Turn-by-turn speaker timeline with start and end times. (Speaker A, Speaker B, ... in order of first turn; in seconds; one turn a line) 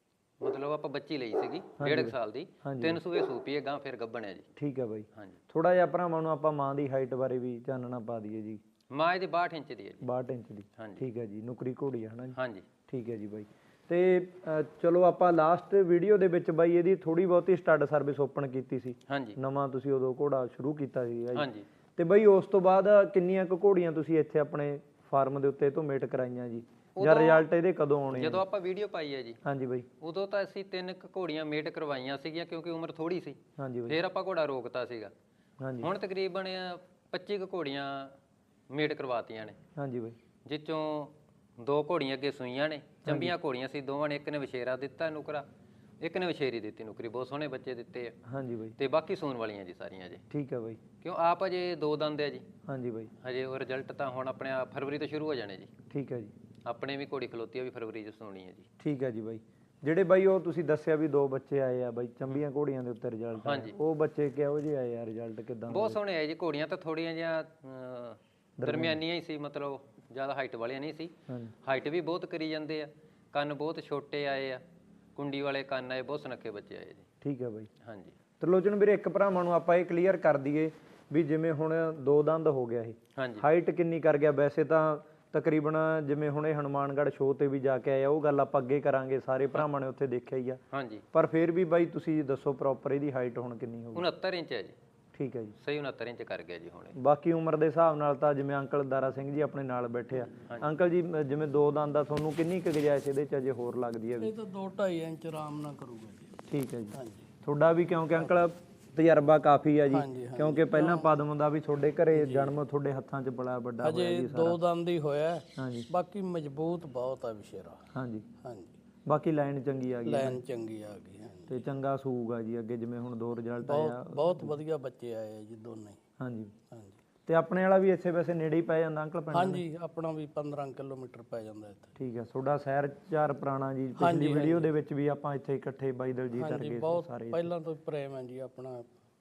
Speaker A: 0.4-4.5
Speaker B: 1.8-3.0
Speaker B: 4.6-8.6
Speaker A: 8.9-10.0
Speaker B: 10.0-28.4
Speaker A: 12.3-12.7
Speaker A: 19.1-19.4
Speaker A: 21.3-21.6
Speaker A: 26.9-27.4
Speaker A: 28.1-29.4
Speaker B: 29.4-29.9
Speaker A: 30.0-35.1
Speaker B: 33.6-34.0
Speaker B: 35.6-35.9
Speaker A: 35.8-38.1
Speaker A: 38.7-39.6
Speaker B: 39.8-40.1
Speaker A: 40.5-45.4
Speaker B: 43.0-43.3
Speaker A: 46.0-48.2
Speaker B: 48.3-48.8
Speaker A: 48.8-50.2
Speaker B: 50.3-50.8
Speaker A: 51.0-52.4
Speaker B: 52.7-53.1
Speaker A: 53.2-55.7
Speaker B: 55.9-56.3
Speaker A: 56.6-58.7
Speaker B: 58.8-66.0
Speaker A: 63.4-63.7
Speaker A: 65.7-71.1
Speaker B: 68.6-69.0
Speaker A: 71.6-74.6
Speaker A: 75.2-77.0
Speaker B: 77.2-77.7
Speaker A: 77.8-78.1
Speaker B: 78.4-90.6
Speaker A: 83.2-83.4
Speaker A: 90.7-91.0
Speaker B: 91.1-94.0
Speaker A: 93.9-94.7
Speaker B: 95.1-95.5
Speaker A: 95.6-96.9
Speaker B: 97.0-104.3
Speaker C: 104.2-106.3
Speaker B: 106.5-114.6
Speaker C: 106.9-107.2
Speaker C: 109.9-111.1
Speaker C: 112.1-112.5
Speaker C: 113.8-117.8
Speaker B: 115.5-115.9
Speaker B: 117.9-118.2
Speaker C: 118.4-118.7
Speaker B: 119.1-120.4
Speaker C: 120.0-121.6
Speaker B: 121.5-124.5
Speaker C: 123.7-126.0
Speaker B: 126.2-126.5
Speaker C: 126.7-127.0
Speaker B: 127.3-129.6
Speaker C: 129.3-131.9
Speaker B: 132.0-137.5
Speaker C: 134.0-134.7
Speaker C: 136.4-138.9